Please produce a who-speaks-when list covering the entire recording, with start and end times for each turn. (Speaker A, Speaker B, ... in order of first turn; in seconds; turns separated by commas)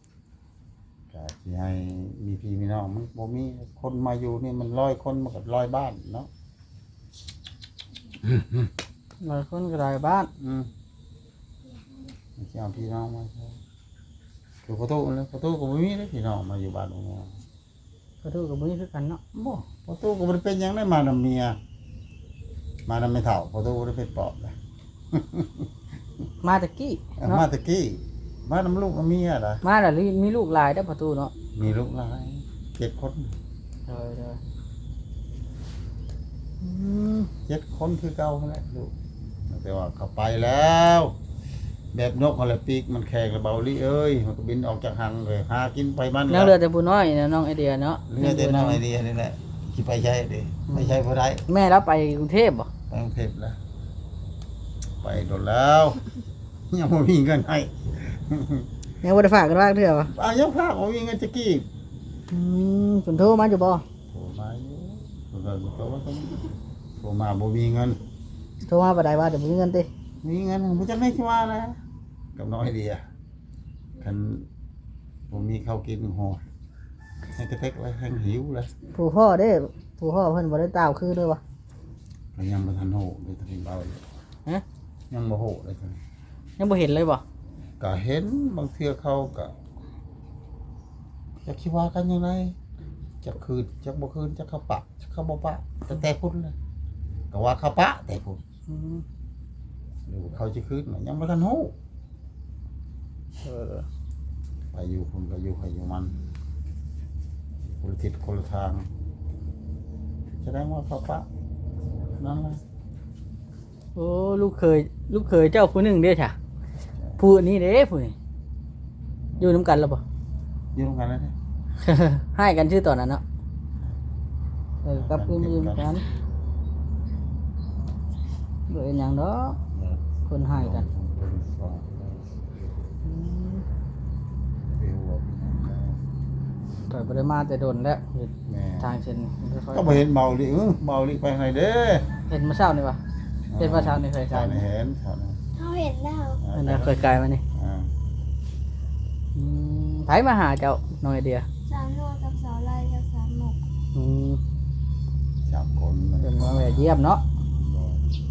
Speaker A: 1.1-6.3, Speaker B: 9.2-10.3, Speaker A: 10.4-10.7, Speaker A: 12.4-13.6, Speaker A: 14.7-17.4, Speaker B: 18.2-19.2, Speaker A: 19.3-21.6, Speaker A: 22.9-24.6, Speaker A: 25.1-25.7, Speaker B: 26.4-27.5, Speaker A: 27.2-29.6, Speaker B: 29.6-31.3, Speaker A: 31.6-33.3, Speaker B: 33.9-34.4, Speaker A: 36.6-38.9, Speaker A: 39.5-41.1, Speaker A: 41.9-46.5, Speaker B: 46.3-48.8, Speaker A: 48.1-51.5, Speaker B: 50.7-52.7, Speaker A: 52.9-53.6, Speaker A: 55.0-56.0, Speaker A: 56.7-58.7, Speaker B: 59.0-60.1, Speaker A: 60.1-61.7, Speaker B: 62.3-63.8, Speaker A: 64.1-68.0, Speaker B: 68.7-69.9, Speaker A: 70.2-71.8, Speaker A: 72.3-73.1, Speaker A: 74.0-74.5, Speaker A: 75.3-76.4, Speaker A: 77.3-78.7, Speaker B: 78.9-81.4, Speaker A: 82.3-84.0, Speaker A: 85.1-86.0, Speaker B: 86.6-87.2, Speaker A: 87.8-89.5, Speaker A: 91.4-92.6, Speaker A: 93.2-96.5, Speaker A: 97.3-98.4, Speaker B: 98.7-99.0, Speaker A: 100.1-101.7, Speaker B: 103.4-103.9, Speaker A: 104.7-106.2, Speaker A: 107.6-108.9, Speaker A: 110.4-111.3, Speaker A: 112.1-112.6, Speaker B: 114.0-116.3, Speaker B: 117.2-118.2, Speaker B: 119.4-120.0, Speaker A: 120.7-121.3, Speaker B: 121.8-123.2, Speaker B: 124.8-126.0, Speaker A: 124.9-125.9, Speaker B: 128.7-129.6, Speaker A: 129.7-132.5, Speaker B: 130.3-130.8, Speaker B: 133.0-133.6, Speaker A: 134.7-136.0, Speaker B: 136.9-140.0, Speaker A: 138.5-138.9, Speaker A: 139.7-142.1, Speaker B: 142.3-143.0, Speaker A: 143.5-145.4, Speaker B: 143.6-144.7, Speaker C: 145.6-146.4, Speaker A: 146.4-147.9, Speaker B: 146.5-147.4, Speaker B: 149.3-151.5, Speaker C: 151.7-153.6, Speaker B: 153.9-154.4, Speaker A: 155.5-157.0, Speaker B: 156.2-157.2, Speaker A: 157.6-158.0